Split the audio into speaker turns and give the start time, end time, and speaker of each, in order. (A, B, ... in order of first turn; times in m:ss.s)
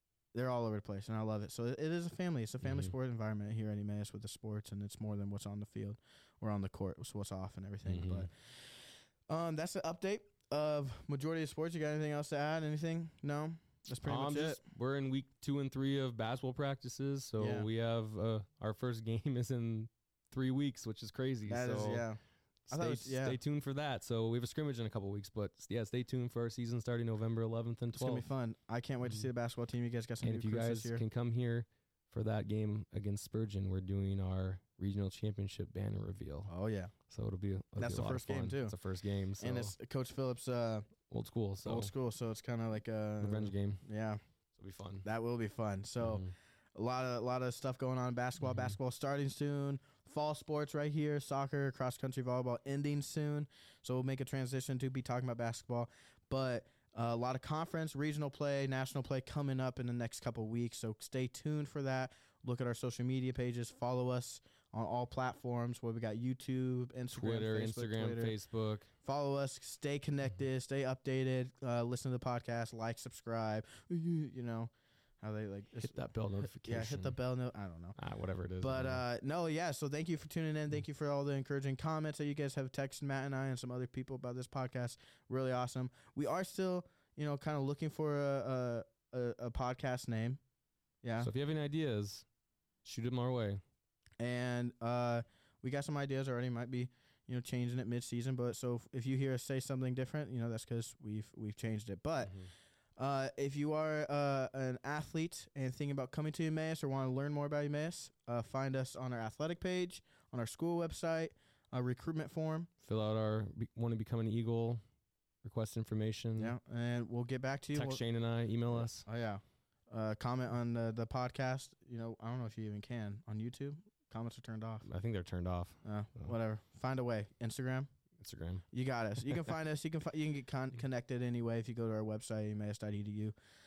0:00.3-0:08.6 A
0:02.6-0:02.9 B
0:07.9-0:08.3 B
0:09.3-0:14.6 A
0:14.0-0:22.1 B
0:17.4-0:17.7 A
0:21.5-0:22.2 A
0:22.7-0:28.3 B
0:22.7-0:23.4 A
0:27.9-0:31.0 A
0:30.2-0:36.5 B
0:36.5-0:36.9 A
0:37.1-0:39.7 B
0:37.8-0:38.8 A
0:39.4-0:40.9 A
0:41.1-0:41.9 B
0:41.6-0:44.2 A
0:43.2-0:43.8 B
0:44.6-0:45.0 B
0:45.0-1:08.4 A
0:46.0-0:46.3 B
0:48.4-0:48.8 B
1:07.1-1:08.9 B
1:09.0-1:18.0 A
1:15.8-1:17.2 B
1:18.0-1:19.0 B
1:18.6-1:30.4 A
1:31.0-1:31.3 A
1:31.2-1:32.3 B
1:32.8-1:33.6 B
1:34.2-1:42.4 A
1:43.0-1:52.7 A
1:52.8-1:54.8 B
1:55.4-1:56.6 B
1:56.4-1:58.0 A
1:57.7-1:59.0 B
1:58.8-2:04.9 A
2:04.8-2:06.3 B
2:05.8-2:07.9 A
2:08.2-2:08.6 B
2:08.7-2:13.4 A